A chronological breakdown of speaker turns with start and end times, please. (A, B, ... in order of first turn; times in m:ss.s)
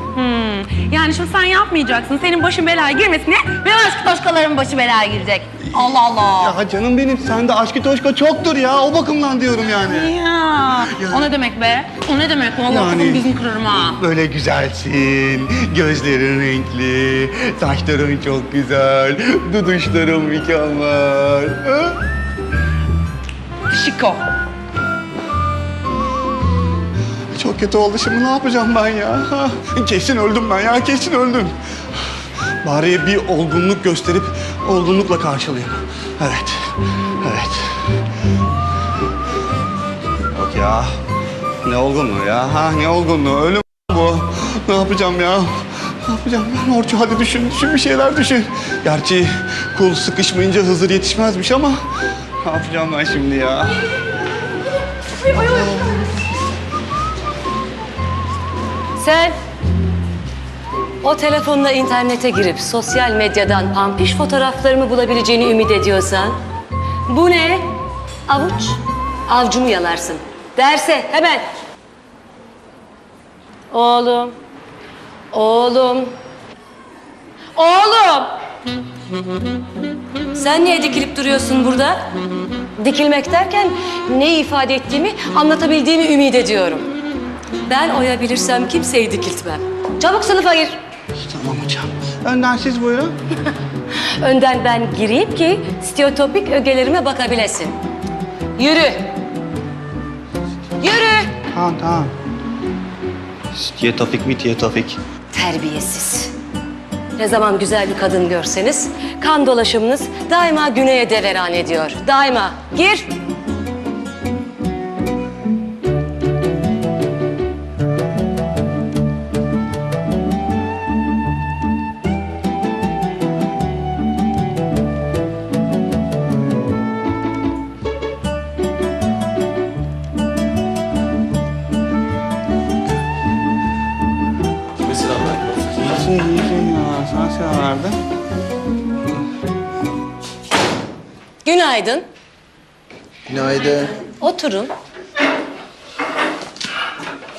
0:00.2-0:06.5 A
0:05.6-0:10.2 B
0:09.9-0:13.9 A
0:10.8-0:11.3 B
0:12.6-0:22.0 B
0:23.7-0:24.2 A
0:27.3-0:31.5 B
0:32.6-0:37.7 B
0:40.3-0:40.9 B
0:41.6-0:51.8 B
0:52.4-0:53.7 B
0:59.0-0:59.4 C
1:01.0-1:06.4 C
1:07.1-1:07.7 C
1:08.3-1:11.5 C
1:13.7-1:14.4 C
1:15.3-1:16.2 C
1:17.6-1:18.3 C
1:20.3-1:22.0 C
1:22.8-1:26.9 C
1:27.6-1:30.8 C
1:31.2-1:33.1 B
1:34.2-1:37.8 C
1:38.6-1:39.1 C
1:40.8-1:41.3 C
1:41.5-1:42.1 B
1:43.5-1:45.0 B
1:45.3-1:46.3 C
1:47.2-1:53.1 C
2:15.8-2:18.0 B
2:21.4-2:22.1 C
2:24.2-2:24.7 C